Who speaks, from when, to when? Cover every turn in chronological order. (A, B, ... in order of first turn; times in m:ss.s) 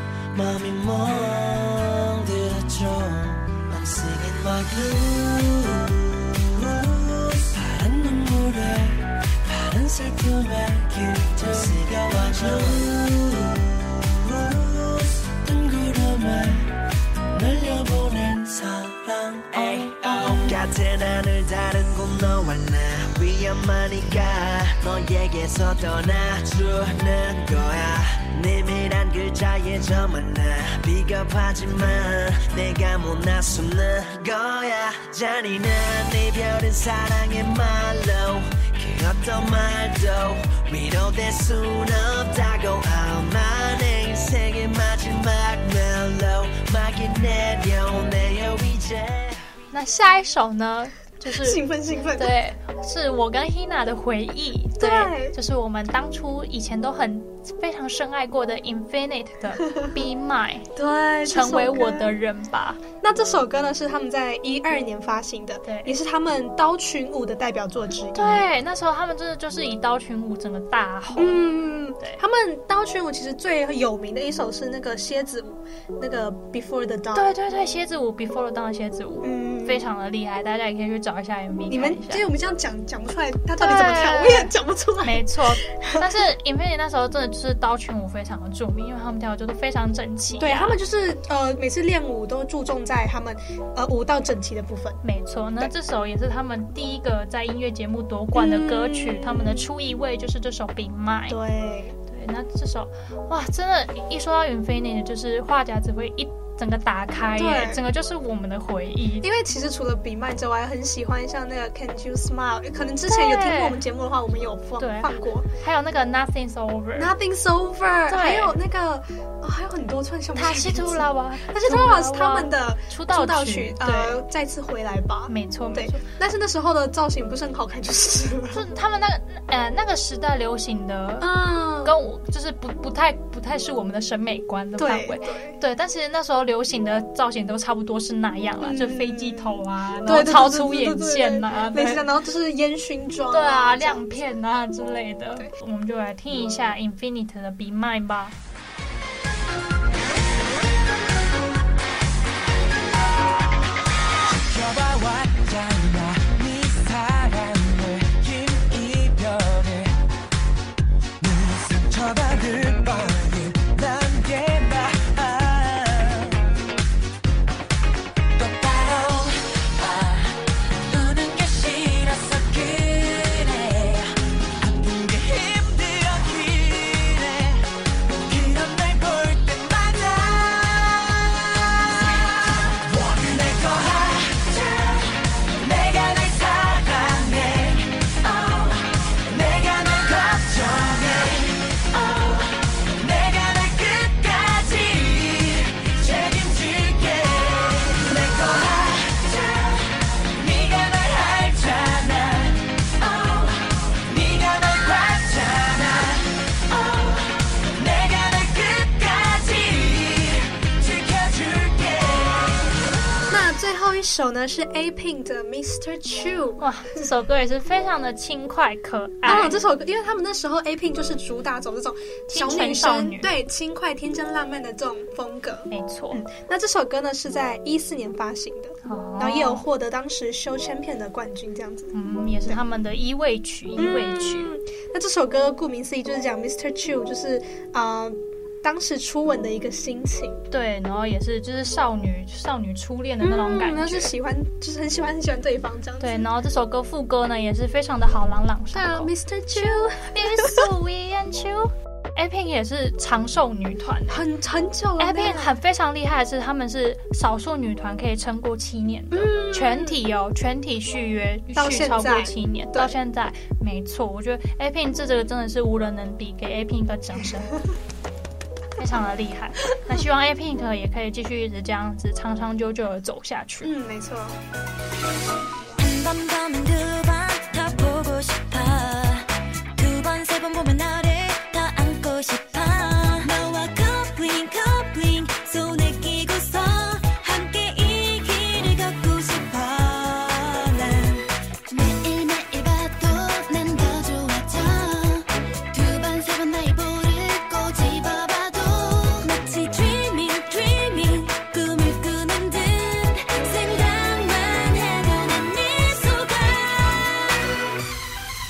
0:00.3-0:16.8 A
0:17.3-0:49.4 A
0:49.7-1:00.7 B
0:51.3-0:52.4 C
0:54.8-0:55.4 C
1:00.8-1:02.2 C
1:01.3-1:02.8 B
1:03.0-1:08.4 C
1:05.6-1:06.0 B
1:08.1-1:11.4 B
1:11.2-1:17.3 C
1:17.1-1:22.2 B
1:19.2-1:19.8 C
1:21.7-1:26.2 C
1:23.6-1:24.5 B
1:25.0-1:30.8 B
1:30.4-1:35.0 C
1:35.0-1:41.4 B
1:38.3-1:39.7 C
1:41.3-1:42.0 C
1:42.1-1:49.3 B
1:47.4-1:47.8 C
1:49.2-1:55.5 C
1:53.1-1:53.8 B
1:54.8-1:57.1 B
1:57.0-2:08.6 C
1:58.1-1:58.6 B
2:00.4-2:04.2 B
2:05.3-2:06.0 B
2:08.5-2:22.0 B
2:11.2-2:12.0 C
2:14.8-2:15.6 C
2:18.6-2:24.3 C
2:23.3-2:28.4 B
2:34.4-2:39.9 D
2:41.2-2:46.4 D
2:48.4-2:50.3 D
2:50.9-2:57.6 D
2:58.2-3:32.7 D
3:33.3-3:37.0 C
3:36.6-3:39.6 B
3:39.2-3:52.0 C
3:42.3-3:43.3 B
3:45.7-3:46.2 B
3:48.9-3:49.7 B
3:51.9-3:54.5 B
3:53.8-4:00.4 C
4:00.5-4:04.1 B
4:03.2-4:06.3 C
4:06.0-4:14.2 B
4:08.7-4:10.7 C
4:14.1-4:15.5 C
4:15.0-4:27.6 B
4:19.1-4:20.0 C
4:21.5-4:23.0 C
4:28.8-4:33.7 B
4:33.6-4:34.4 C
4:35.8-5:07.4 E